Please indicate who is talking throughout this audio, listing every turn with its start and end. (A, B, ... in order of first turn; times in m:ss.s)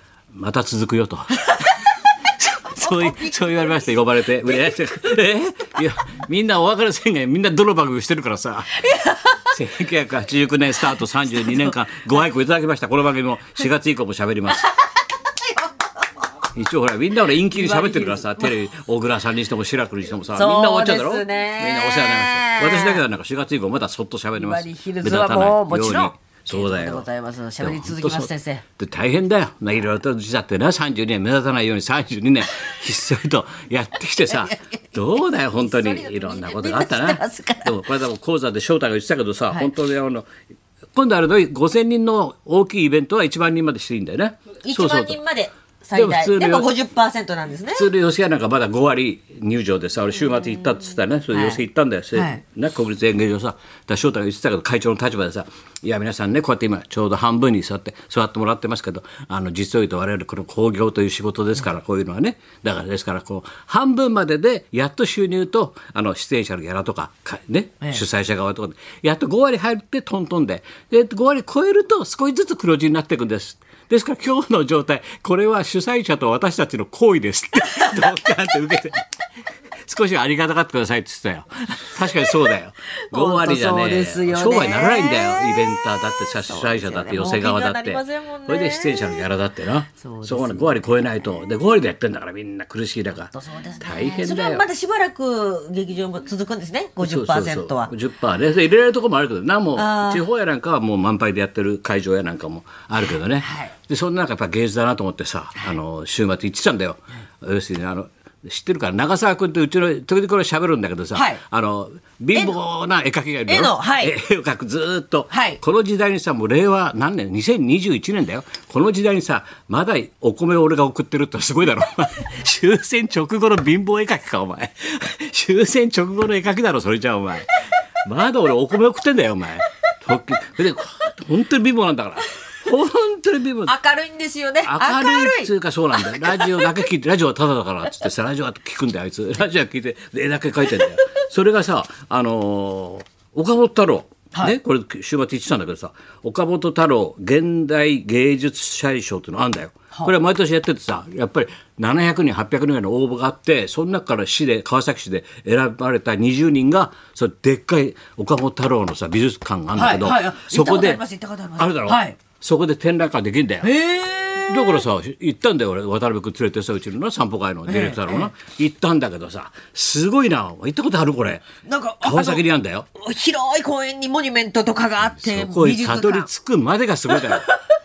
0:00.3-0:08.9 A
0:02.8-0:03.9 B
0:04.5-0:04.8 B
0:08.8-0:09.5 B
0:09.5-0:14.7 A
0:11.4-0:11.7 B
0:15.2-0:15.6 B
0:16.5-0:27.1 A
0:17.5-0:18.6 B
0:20.3-0:23.0 B
0:24.4-0:28.6 B
0:27.6-0:40.3 A
0:34.3-0:34.8 B
0:35.6-0:37.8 B
0:40.9-0:45.2 A
0:44.6-0:47.9 B
0:46.0-0:46.7 A
0:47.7-1:19.1 A
0:51.3-0:51.6 B
0:52.1-0:52.4 B
1:17.8-1:18.1 B
1:19.8-1:34.7 A
1:23.1-1:29.3 B
1:30.0-1:31.0 B
1:33.3-1:37.9 B
1:37.0-2:07.5 A
1:39.8-1:40.2 B
1:43.4-1:43.7 B
1:51.1-1:51.4 B
1:53.5-1:54.1 B
1:55.3-1:55.6 B
2:08.0-2:13.8 A
2:13.7-2:16.7 B
2:14.6-2:41.0 A
2:39.7-2:42.2 B
2:41.6-2:43.7 A
2:43.6-2:44.8 B
2:44.4-2:51.5 A
2:47.7-2:48.3 B
2:51.6-2:52.4 B
2:52.0-2:52.9 A
2:53.0-2:56.3 B
2:55.0-2:57.5 A
2:57.1-2:57.6 B